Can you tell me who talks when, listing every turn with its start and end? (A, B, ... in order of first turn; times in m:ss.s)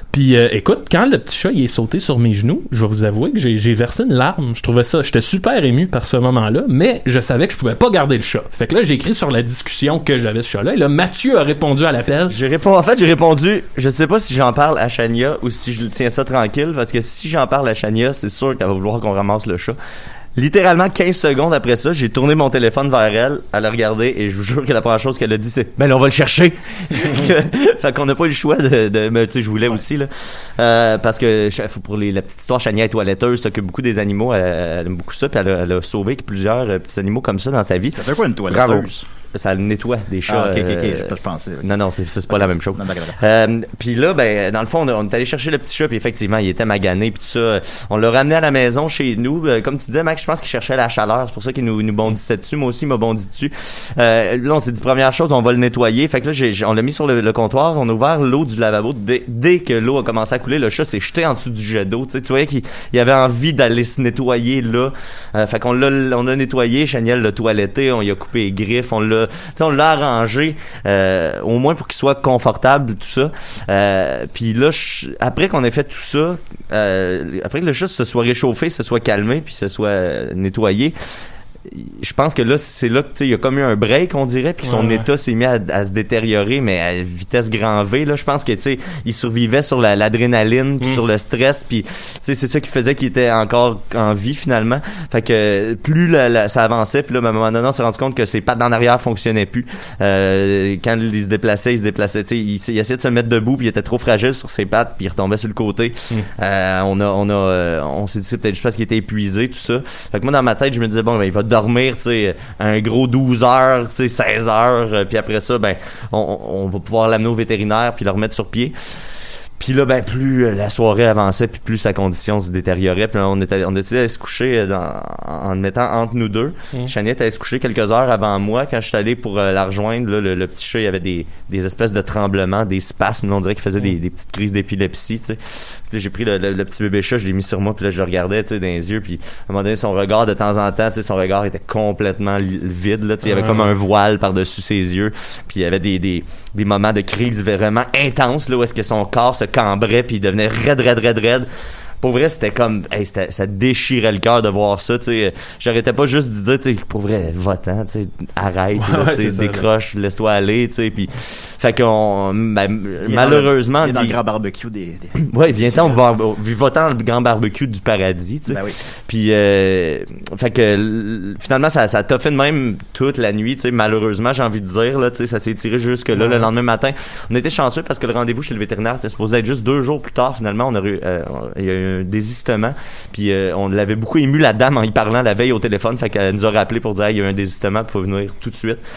0:00.1-0:12.3 A
0:12.3-0:19.8 B
0:20.4-1:20.9 B
0:38.0-0:39.0 C
0:40.3-0:41.7 C
0:42.3-0:43.2 C
1:21.7-1:58.7 B
1:24.6-1:25.1 A
1:59.6-2:31.5 B
2:23.3-2:23.7 A
2:32.0-2:44.2 B
2:38.8-2:39.6 A
2:43.0-2:46.0 C
2:45.2-3:08.8 B
2:48.5-2:48.8 C
2:56.1-2:56.5 A